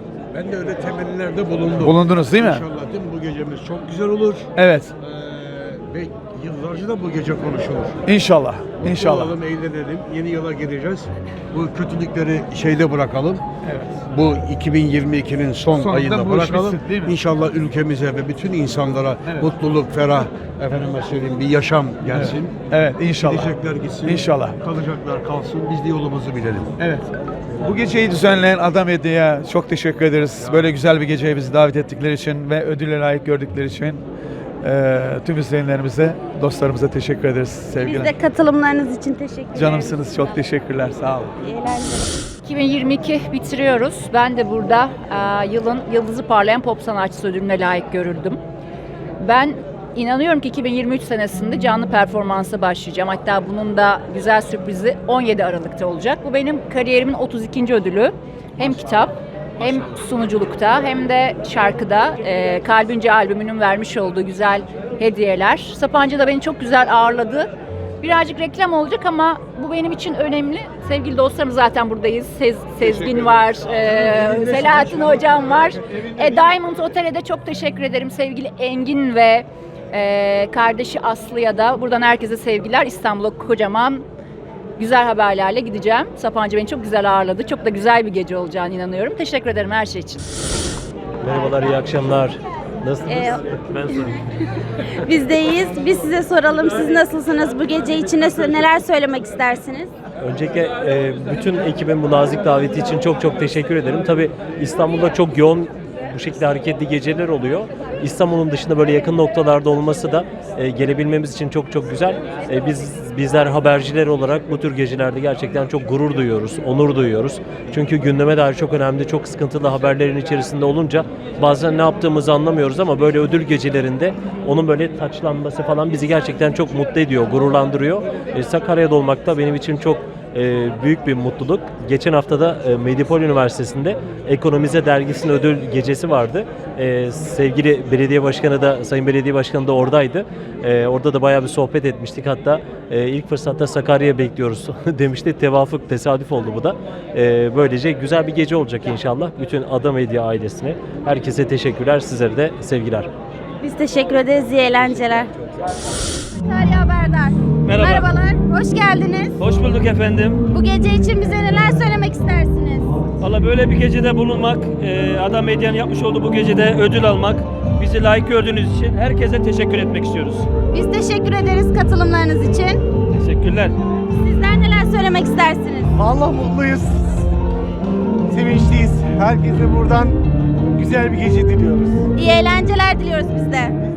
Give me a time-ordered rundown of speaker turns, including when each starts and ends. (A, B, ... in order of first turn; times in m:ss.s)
0:00.3-0:04.5 A
0:01.8-0:02.6 B
0:04.6-0:04.9 B
0:05.0-0:08.0 A
0:08.1-0:09.4 B
0:08.8-0:13.4 A
0:13.6-0:14.0 B
0:14.0-0:22.5 A
0:15.7-0:17.2 B
0:22.1-0:23.5 B
0:23.2-0:27.1 A
0:24.0-0:24.6 B
0:27.6-0:34.0 B
0:30.4-0:30.7 A
0:34.6-0:38.1 B
0:37.8-0:40.0 C
0:39.6-0:41.4 B
0:41.4-0:42.1 C
0:42.4-0:48.4 D
0:49.2-1:24.0 D
1:24.8-1:30.2 D
1:31.2-1:34.1 E
1:33.1-1:33.4 C
1:35.0-1:39.9 C
1:40.2-2:33.1 E
2:33.6-2:35.3 C
2:36.3-2:39.4 C
2:37.6-2:38.1 F
2:39.4-2:40.4 F
2:40.5-2:42.9 C
2:43.2-2:50.5 F
2:50.7-2:52.8 C
2:53.1-2:53.7 F
2:54.2-2:56.0 C
2:56.0-2:56.8 G
2:58.3-3:00.1 G
3:00.8-3:01.9 G
3:02.1-3:03.7 C